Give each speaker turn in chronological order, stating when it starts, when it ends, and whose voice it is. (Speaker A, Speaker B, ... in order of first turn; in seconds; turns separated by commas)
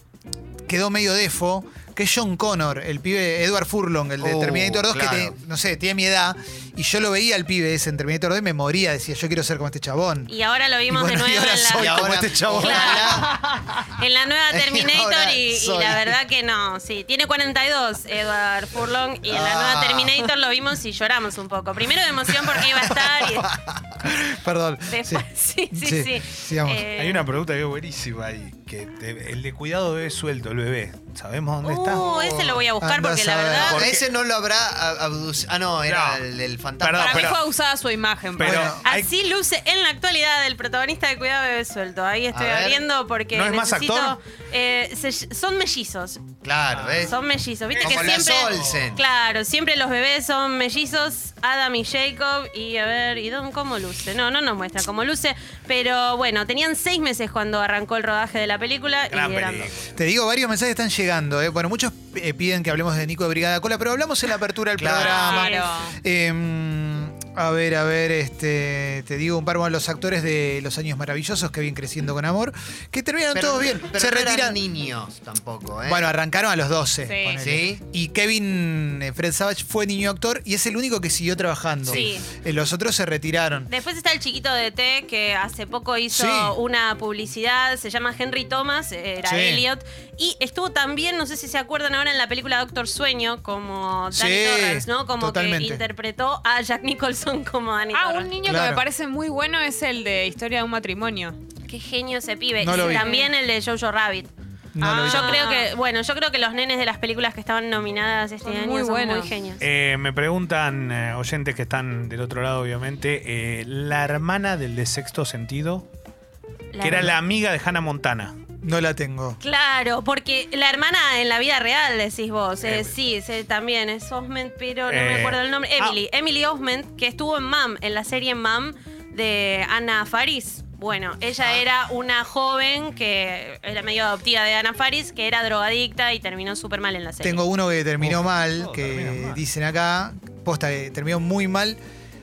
Speaker A: 0.7-10.3, Speaker B: 4.2-5.3, Speaker C: 10.3-13.3, Speaker A: 10.9-13.3, Speaker B: 11.7-13.5, Speaker C: 13.9-23.5, Speaker B: 14.5-16.2, Speaker B: 19.3-20.2, Speaker B: 22.7-23.8, Speaker A: 24.0-26.9, Speaker C: 24.9-27.3, Speaker D: 26.9-32.0, Speaker C: 31.6-33.8, Speaker B: 31.9-32.6, Speaker A: 32.8-33.9, Speaker D: 33.6-34.0, Speaker B: 33.7-37.4, Speaker D: 35.8-36.2, Speaker D: 36.8-37.4, Speaker E: 37.0-38.7, Speaker D: 38.4-38.8, Speaker A: 38.4-39.1, Speaker C: 38.8-46.2, Speaker B: 42.3-42.8, Speaker D: 43.3-44.2, Speaker B: 46.4-47.1, Speaker D: 46.7-47.1, Speaker C: 47.0-59.7, Speaker D: 47.7-48.9, Speaker B: 47.8-49.0, Speaker D: 59.1-59.9, Speaker A: 59.9-74.6, Speaker B: 64.8-65.3, Speaker E: 65.0-66.0, Speaker C: 65.3-65.5, Speaker B: 73.3-76.1, Speaker A: 75.8-83.7, Speaker E: 77.0-77.4, Speaker B: 77.4-77.8, Speaker C: 81.8-82.3, Speaker C: 83.7-98.3, Speaker A: 86.1-86.5, Speaker A: 89.2-89.6, Speaker A: 94.1-95.8, Speaker E: 97.9-101.4, Speaker A: 98.4-98.8, Speaker C: 101.7-104.3, Speaker A: 102.6-103.1, Speaker E: 102.7-103.3, Speaker A: 104.7-105.4, Speaker E: 104.8-105.7, Speaker C: 104.9-109.6, Speaker E: 108.4-109.3, Speaker D: 109.6-115.8, Speaker C: 116.7-117.1, Speaker D: 116.8-118.3, Speaker A: 118.6-119.4, Speaker C: 119.4-137.4, Speaker D: 122.6-122.9, Speaker D: 124.9-126.0, Speaker B: 131.4-131.6, Speaker A: 137.2-141.8, Speaker D: 138.0-139.4